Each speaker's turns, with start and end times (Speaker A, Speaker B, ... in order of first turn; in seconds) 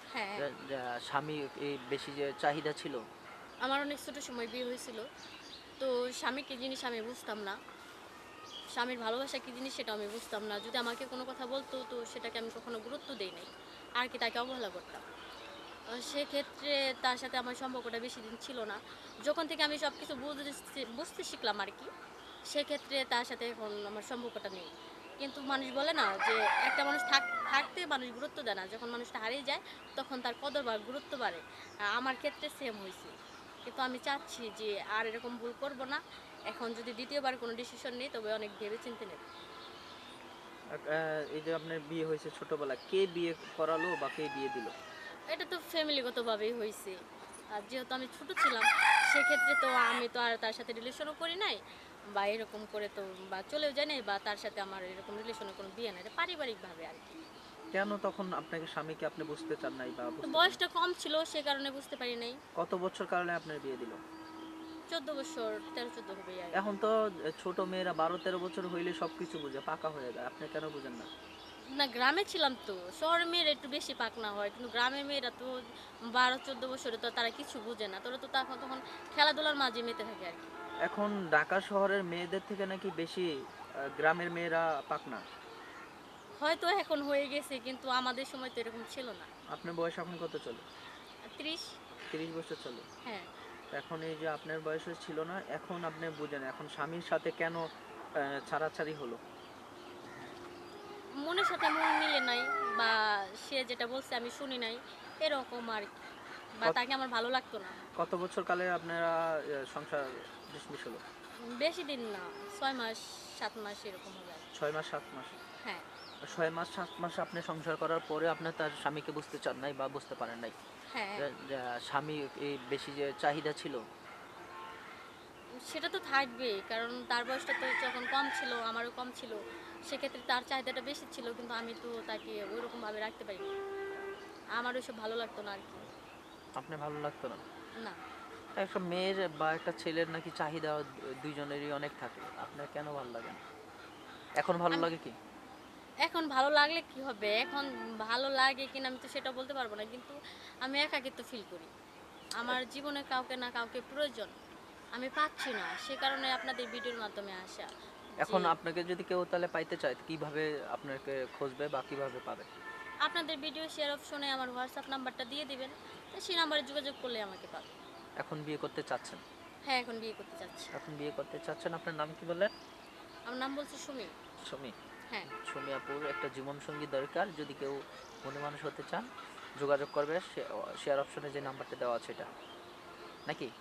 Speaker A: 0.1-0.5, 3.6-5.0, 5.8-7.6, 8.7-15.0, 15.9-21.9, 22.5-33.1, 33.6-39.2, 45.3-47.0, 47.5-51.6, 52.1-57.2, 60.2-62.4, 64.9-66.6, 71.7-75.6, 76.1-80.5, 86.4-89.3, 91.3-91.7, 101.2-105.9, 106.6-107.8, 111.4-114.4, 120.9-121.3, 125.6-133.5, 134.6-135.9, 146.0-151.7, 152.4-154.3, 154.9-157.7, 158.2-158.5, 163.0-167.7, 169.7-170.7, 173.3-174.1
Speaker B: 0.4-3.0, 40.7-44.7, 57.7-60.6, 62.5-64.0, 66.5-71.1, 80.9-83.3, 84.0-85.2, 89.5-90.6, 92.1-92.9, 93.7-97.6, 98.3-99.2, 108.0-109.2, 109.7-111.0, 114.5-115.4, 116.2-120.5, 121.2-123.8, 136.6-137.4, 138.6-143.4, 144.4-145.1, 158.2-162.5, 168.2-169.2, 170.7-172.5, 174.4-174.7, 175.3-179.1, 179.6-182.3